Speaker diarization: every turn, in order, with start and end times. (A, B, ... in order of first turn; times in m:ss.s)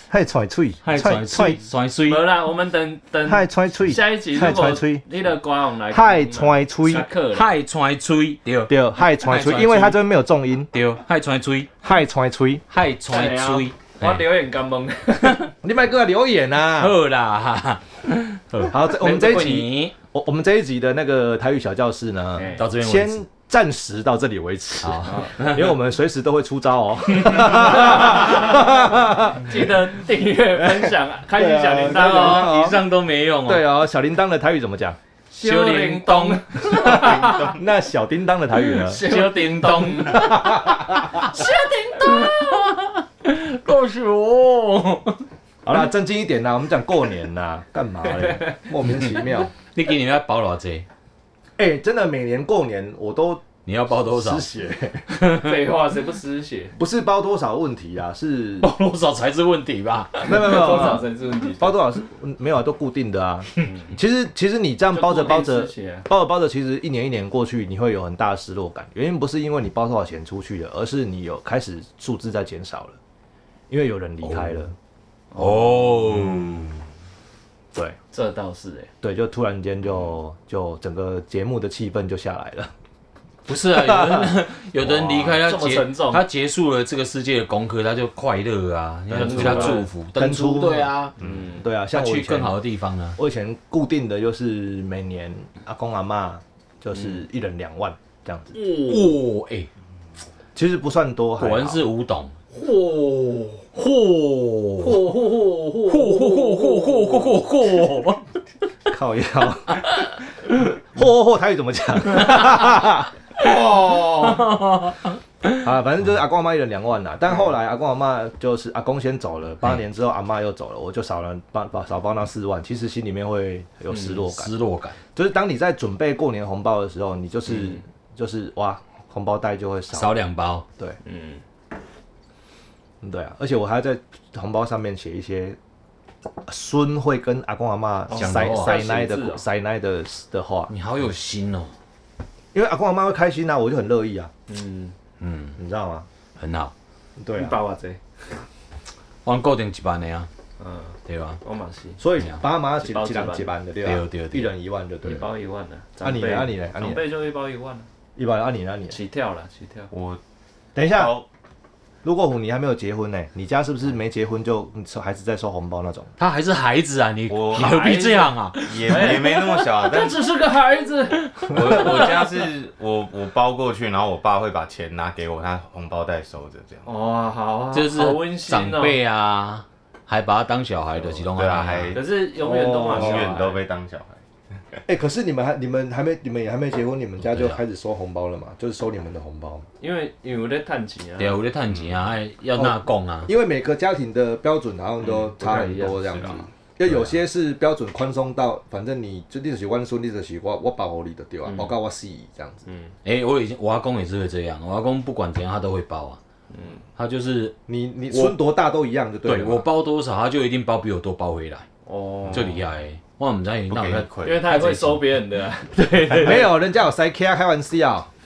0:00.1-0:01.6 A
0:00.8-0:02.3 B
0:02.1-0:07.5 C
0:03.3-0:05.0 A
0:05.9-0:07.1 A
0:07.3-0:10.0 B
0:08.7-0:10.7 A
0:10.7-0:11.7 B
0:11.8-0:12.6 A
0:12.7-0:14.2 B
0:13.1-0:15.5 C
0:15.6-0:17.0 A
0:16.8-0:20.0 B
0:18.7-0:29.7 A
0:22.4-0:22.7 C
0:22.6-0:23.2 B
0:24.8-0:25.7 B
0:25.0-0:25.3 C
0:27.3-0:27.7 B
0:27.4-0:32.5 C
0:30.6-0:32.8 A
0:31.8-0:33.7 B
0:33.4-0:35.0 A
0:35.3-0:37.5 C
0:35.4-0:37.2 B
0:36.7-0:37.6 D
0:37.3-0:39.0 A
0:38.8-0:42.7 C
0:38.9-0:40.5 B
0:40.1-0:41.2 A
0:41.2-0:45.2 B
0:45.6-0:49.5 A
0:48.9-0:50.9 B
0:51.6-0:55.1 A
0:53.7-0:54.5 B
0:55.1-0:55.5 B
0:55.3-0:56.8 C
0:56.8-0:58.7 A
0:58.6-1:00.9 B
1:00.2-1:01.8 C
1:00.2-1:01.1 A
1:01.6-1:13.0 A
1:03.6-1:03.9 C
1:04.9-1:06.1 C
1:13.7-1:14.7 A
1:14.2-1:14.6 B
1:15.3-1:16.1 C
1:15.4-1:16.8 B
1:18.1-1:18.9 C
1:19.0-1:22.7 A
1:23.5-1:31.1 B
1:23.7-1:24.4 A
1:24.8-1:26.2 C
1:29.1-1:32.6 A
1:29.2-1:29.9 C
1:31.2-1:31.5 D
1:31.2-1:31.6 C
1:31.9-1:33.2 B
1:33.2-1:39.0 A
1:38.5-1:39.7 B
1:40.6-1:41.9 A
1:41.4-1:42.4 B
1:42.8-1:43.5 C
1:43.7-1:45.2 B
1:44.8-1:47.4 C
1:45.9-1:48.2 B
1:48.9-1:53.1 A
1:52.2-1:52.6 B
1:53.4-1:54.4 D
1:53.4-1:55.6 B
1:55.6-2:04.5 A
2:04.0-2:05.0 B
2:05.1-2:10.2 A
2:09.9-2:10.7 B
2:11.0-2:11.4 C
2:13.0-2:15.6 A
2:16.5-2:20.7 A
2:18.1-2:19.4 C
2:18.1-2:18.8 B
2:20.7-2:21.7 B
2:22.5-2:24.3 A
2:24.5-2:25.0 C
2:25.2-2:25.6 B
2:25.6-2:26.1 A
2:26.4-2:26.7 B
2:27.2-2:27.6 A
2:27.3-2:28.0 C
2:29.2-2:30.3 B
2:30.6-2:32.0 C
2:31.1-2:31.4 B
2:32.0-2:35.2 A
2:32.8-2:33.5 C
2:33.8-2:34.5 B
2:35.0-2:37.9 C
2:36.0-2:37.0 A
2:38.2-2:39.0 A
2:38.9-2:39.9 C
2:39.9-2:40.2 D
2:40.8-2:41.1 A
2:40.8-2:41.3 D
2:42.0-2:46.1 A
2:46.2-2:49.5 B
2:47.3-2:48.1 D
2:47.5-2:52.2 C
2:48.6-2:50.2 D
2:51.4-2:52.3 B
2:51.5-2:56.9 D
2:56.9-2:59.0 C
2:57.7-3:02.0 B
3:01.0-3:02.1 D
3:01.9-3:03.6 C
3:02.4-3:03.3 A
3:02.8-3:04.2 D
3:04.9-3:09.7 A
3:07.2-3:07.6 B
3:09.8-3:11.4 C
3:11.2-3:13.3 B
3:11.7-3:12.1 D
3:12.6-3:22.6 A
3:15.0-3:16.5 C
3:21.4-3:21.7 C
3:22.7-3:22.9 C
3:23.0-3:26.2 B
3:26.5-3:26.8 C
3:27.0-3:27.6 B
3:27.7-3:29.7 A
3:28.1-3:28.4 B
3:29.2-3:31.6 B
3:31.9-3:32.6 C
3:32.2-3:32.6 D
3:32.3-3:35.0 B
3:33.7-3:34.5 D
3:34.2-3:36.5 C
3:36.1-3:38.1 A